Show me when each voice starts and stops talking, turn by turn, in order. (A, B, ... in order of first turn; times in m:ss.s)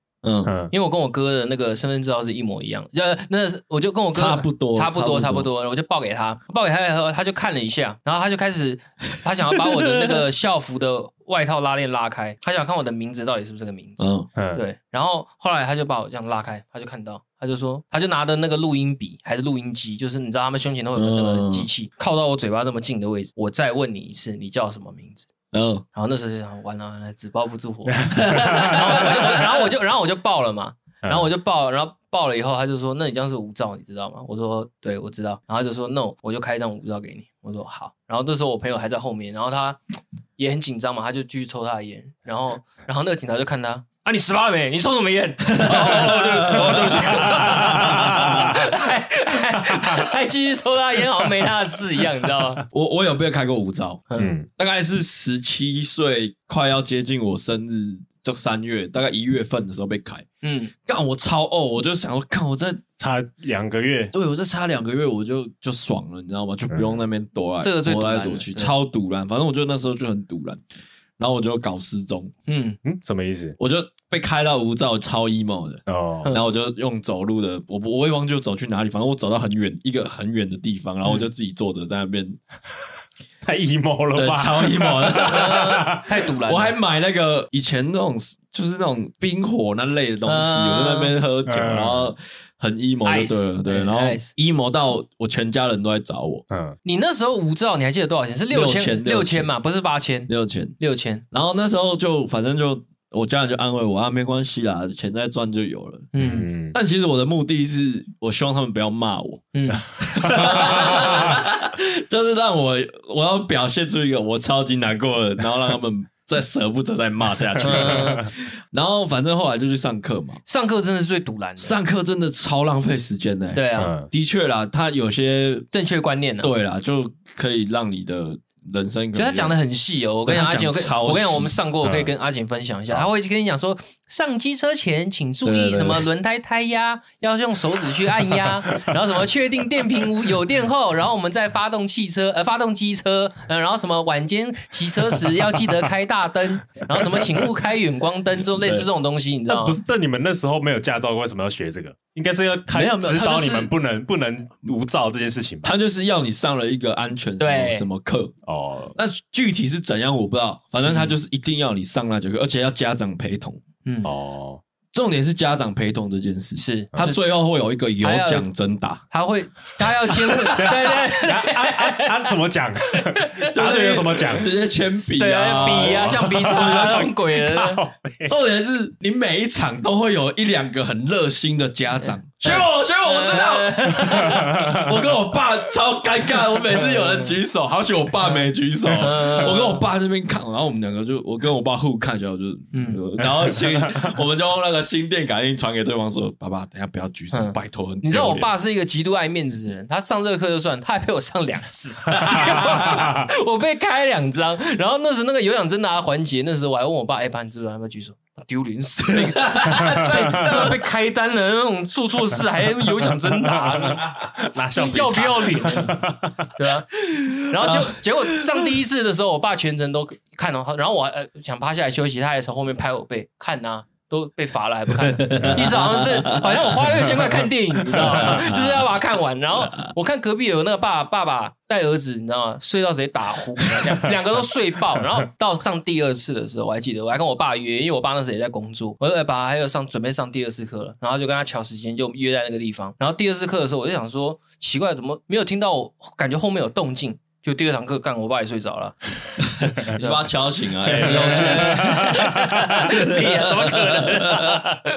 0:00.2-0:00.5 A
0:00.4-0:00.7 B
0:00.7-0:25.3 C
0:04.1-0:05.5 A
0:14.0-0:14.3 A
0:14.4-0:14.6 B
0:21.0-0:21.7 A
0:25.5-0:25.8 A
0:25.9-0:39.8 C
0:28.0-0:28.8 B
0:28.1-0:29.5 A
0:40.4-0:52.6 C
0:45.4-0:48.7 A
0:46.6-0:48.6 B
0:52.7-1:00.2 A
0:54.1-0:54.4 C
0:54.2-0:54.5 B
1:00.4-1:00.7 C
1:00.8-1:02.8 A
1:03.0-1:04.1 B
1:04.1-1:10.6 A
1:06.7-1:07.0 B
1:07.6-1:08.7 C
1:11.2-1:12.3 A
1:12.5-1:12.8 C
1:12.8-1:13.6 B
1:13.6-1:22.4 A
1:15.9-1:16.3 B
1:23.4-1:26.0 B
1:24.1-1:36.4 A
1:25.2-1:26.8 C
1:30.2-1:31.1 C
1:31.4-1:32.1 B
1:33.0-1:34.3 C
1:36.5-1:36.8 B
1:36.8-1:41.2 C
1:38.5-1:39.5 A
1:40.3-1:40.8 A
1:41.3-1:46.1 A
1:46.1-1:46.5 C
1:46.2-1:46.8 B
1:46.7-2:00.4 A
1:49.5-1:51.4 C
1:50.2-1:51.2 B
1:57.6-1:58.2 B
1:57.6-1:58.3 C
2:00.4-2:01.8 C
2:01.6-2:05.7 A
2:03.5-2:03.9 C
2:03.8-2:04.1 B
2:05.7-2:06.5 C
2:06.4-2:09.6 A
2:09.1-2:29.8 C
2:10.2-2:11.5 A
2:11.8-2:12.1 B
2:15.4-2:16.0 A
2:28.6-2:28.9 A
2:29.5-2:35.7 B
2:32.7-2:33.7 A
2:35.6-2:38.3 A
2:37.4-2:37.9 C
2:38.4-2:39.0 B
2:39.0-2:43.6 A
2:40.9-2:41.1 C
2:43.8-2:44.1 C
2:44.0-2:44.6 B
2:44.9-2:49.0 A
2:46.6-2:47.2 C
2:48.0-2:48.4 C
2:49.1-2:52.3 C
2:50.1-2:50.8 A
2:50.5-2:54.5 B
2:53.1-2:53.5 C
2:53.5-2:57.1 A
2:55.1-2:57.8 C
2:55.6-2:58.3 B
2:58.2-3:18.5 A
3:02.4-3:04.7 C
3:04.3-3:04.9 B
3:06.8-3:07.3 C
3:08.9-3:09.8 C
3:12.7-3:13.0 C
3:13.6-3:14.1 B
3:17.3-3:34.1 C
3:22.3-3:23.0 A
3:22.3-3:23.2 B
3:29.1-3:30.8 A
3:29.8-3:30.6 B
3:33.0-3:36.5 B
3:34.7-3:36.0 C
3:36.6-4:14.8 C
3:37.1-3:38.4 A
3:45.0-3:47.3 A
3:45.4-3:45.6 B
3:47.8-3:48.9 A
3:49.6-3:49.9 A
4:09.5-4:14.7 A
4:10.9-4:12.8 B